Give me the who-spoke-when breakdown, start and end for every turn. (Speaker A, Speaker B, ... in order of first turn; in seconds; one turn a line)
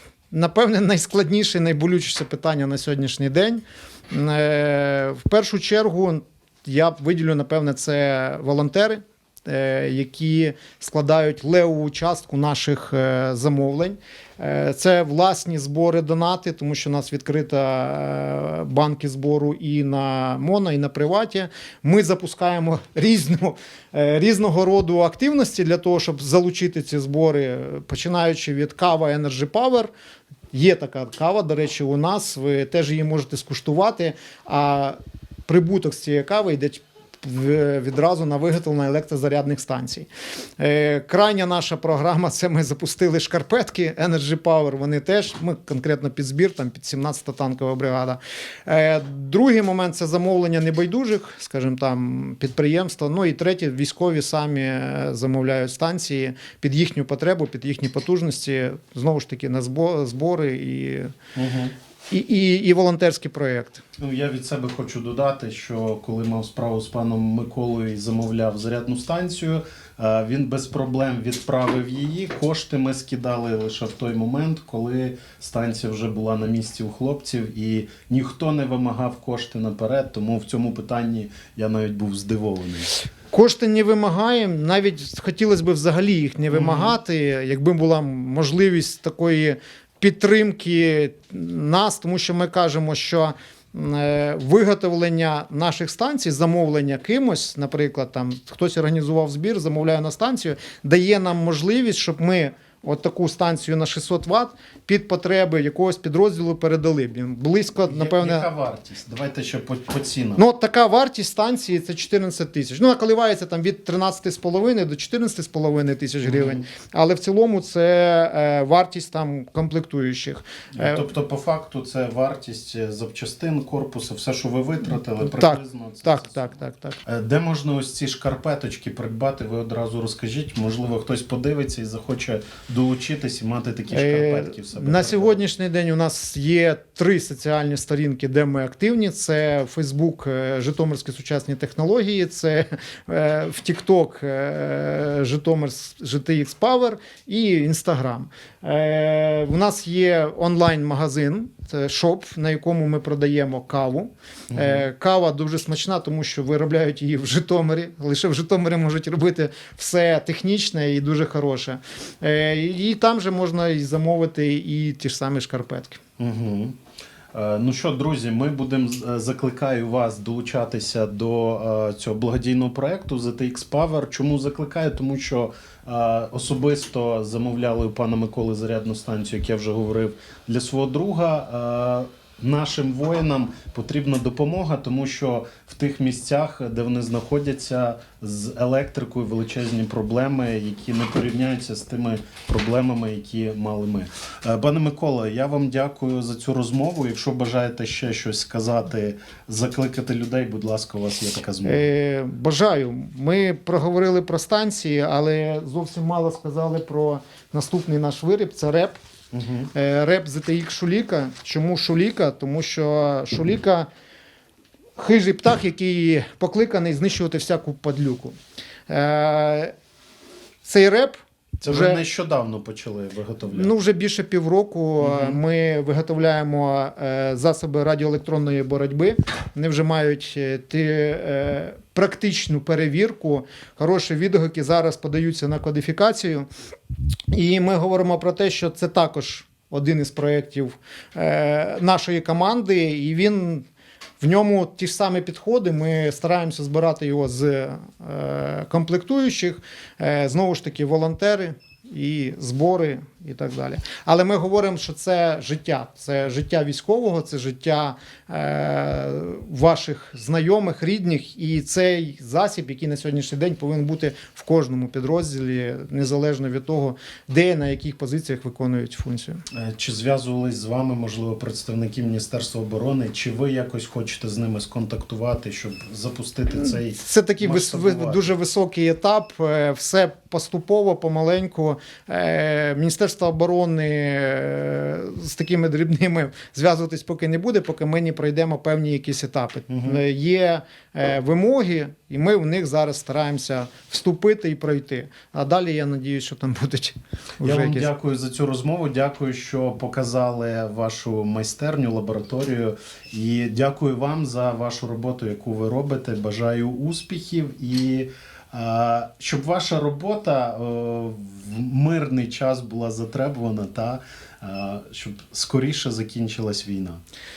Speaker A: 0.3-29.9
Speaker A: 30.5-61.1
Speaker B: 61.4-61.8
Speaker A: 62.1-63.8
Speaker B: 64.0-83.0
Speaker A: 83.3-108.5
Speaker B: 86.5-87.0
Speaker B: 107.9-110.4
Speaker A: 110.4-121.1
Speaker B: 116.2-116.7
Speaker B: 120.7-126.5
Speaker A: 125.2-127.0
Speaker B: 127.0-135.4
Speaker A: 133.9-166.0
Speaker B: 154.5-154.8
Speaker B: 166.2-166.8
Speaker B: 167.3-201.9
Speaker A: 201.7-209.0
Speaker B: 209.3-209.7
Speaker A: 209.7-213.9
Speaker A: 215.0-218.4
Speaker A: 218.9-219.7
Speaker A: 220.7-222.0
Speaker B: 221.6-223.7
Speaker A: 223.5-236.5
Speaker B: 225.0-225.4
Speaker A: 237.3-243.7
Speaker A: 244.2-269.4
Speaker B: 269.5-278.3
Speaker A: 276.6-297.9
Speaker B: 289.7-290.0
Speaker B: 297.4-317.0